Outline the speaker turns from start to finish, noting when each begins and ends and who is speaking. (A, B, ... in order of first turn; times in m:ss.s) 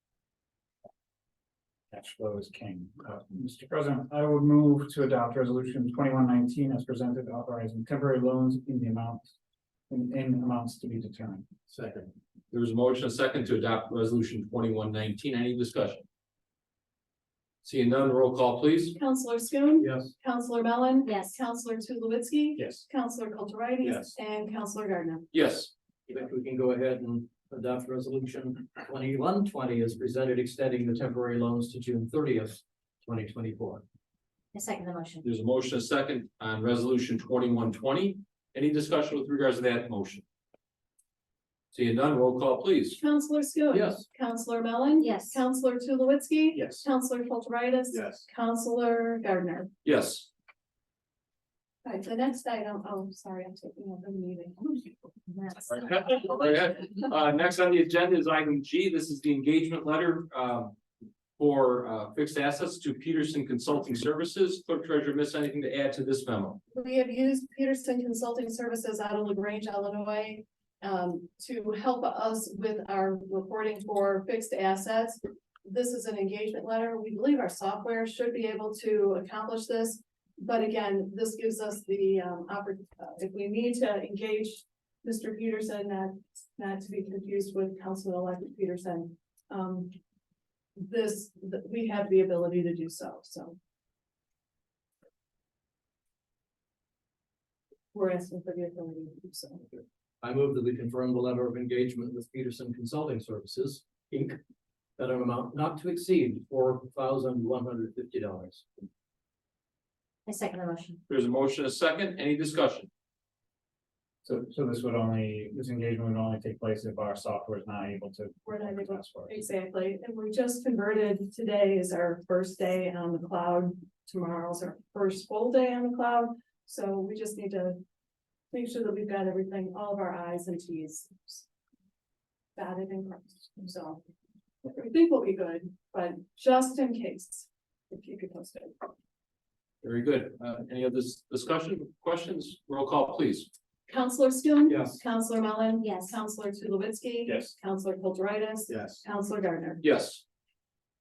0:01.9-0:09.3 A
0:09.9-0:11.4 A
0:11.7-0:12.1 B
0:12.5-0:16.0 C
0:17.6-0:19.0 C
0:19.0-0:25.3 D
0:19.8-0:20.1 B
0:21.0-0:21.4 E
0:22.6-0:22.8 A
0:25.3-0:25.7 C
0:26.1-0:33.8 B
0:34.5-0:35.2 E
0:35.2-0:40.2 C
0:41.7-0:43.0 C
0:43.0-0:49.7 D
0:43.7-0:44.0 B
0:45.0-0:45.4 E
0:46.6-0:46.8 A
0:47.9-0:48.2 A
0:49.8-0:50.3 C
0:51.8-0:54.9 D
0:55.7-1:00.8 C
1:01.4-1:06.6 C
1:06.7-1:30.0 D
1:30.8-1:33.6 D
1:37.9-1:39.8 D
1:40.2-1:44.4 B
1:45.0-1:48.6 B
1:50.2-1:51.0 E
1:51.1-1:52.9 C
1:54.2-1:59.4 A
1:58.4-2:07.8 D
2:08.5-2:11.4 D
2:12.5-2:14.0 D
2:14.6-2:18.8 D
2:19.8-2:23.5 C
2:23.9-2:29.8 D
2:24.6-2:25.0 B
2:25.8-2:26.2 E
2:27.2-2:27.5 A
2:28.7-2:29.0 A
2:29.8-2:30.2 C